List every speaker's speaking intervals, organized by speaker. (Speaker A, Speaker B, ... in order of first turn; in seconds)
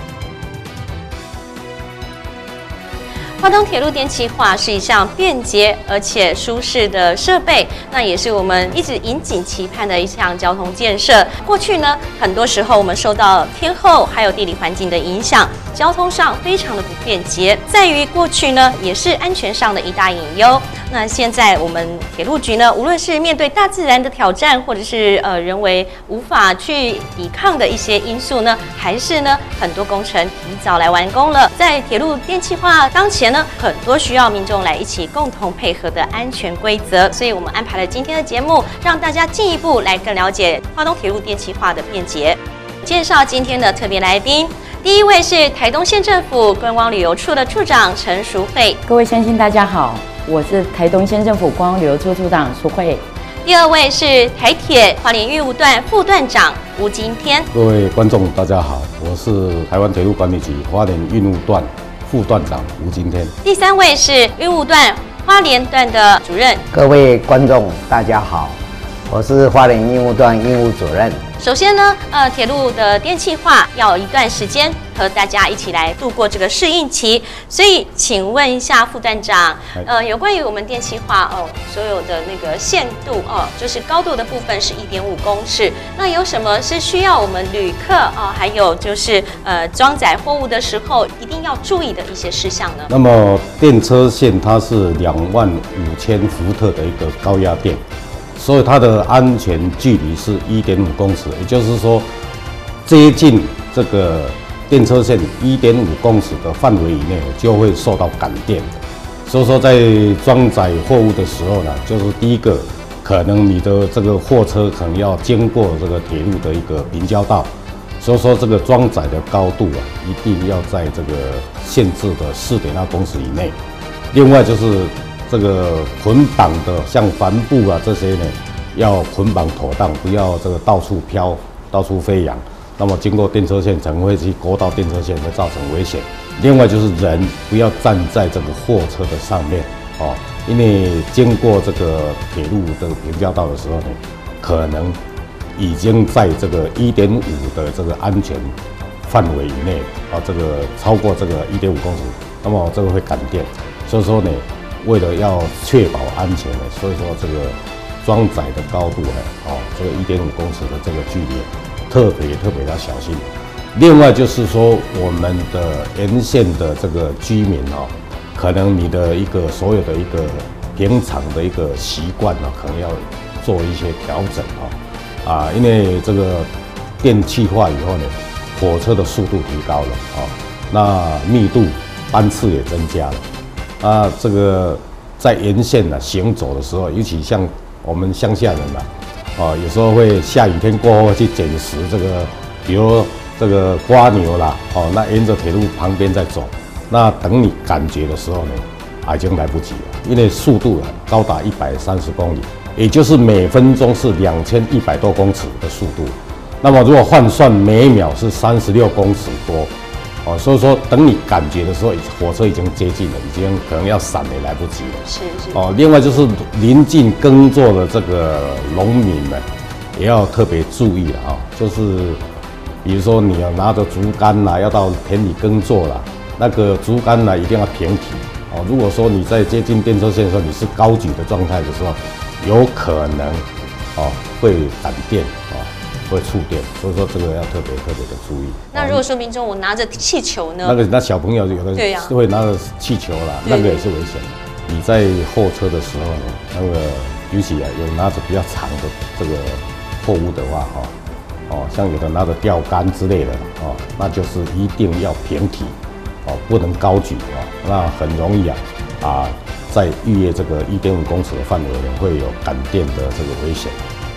Speaker A: 3.4-48.8, 53.4-57.5, 63.4-66.6, 71.4-92.9, 215.1-215.6, 238.7-240.8, 241.7-242.1, 243.4-243.8
Speaker B: 48.9-53.0
Speaker C: 57.5-63.3, 92.9-97.8, 98.3-102.1, 102.8-117.5, 118.0-123.5, 124.1-145.0, 145.6-176.5, 177.0-183.2, 183.8-209.7, 210.2-219.4, 219.9-222.2, 222.8-239.0, 240.6-250.9, 251.5-263.9
Speaker D: 66.7-68.6, 69.1-71.2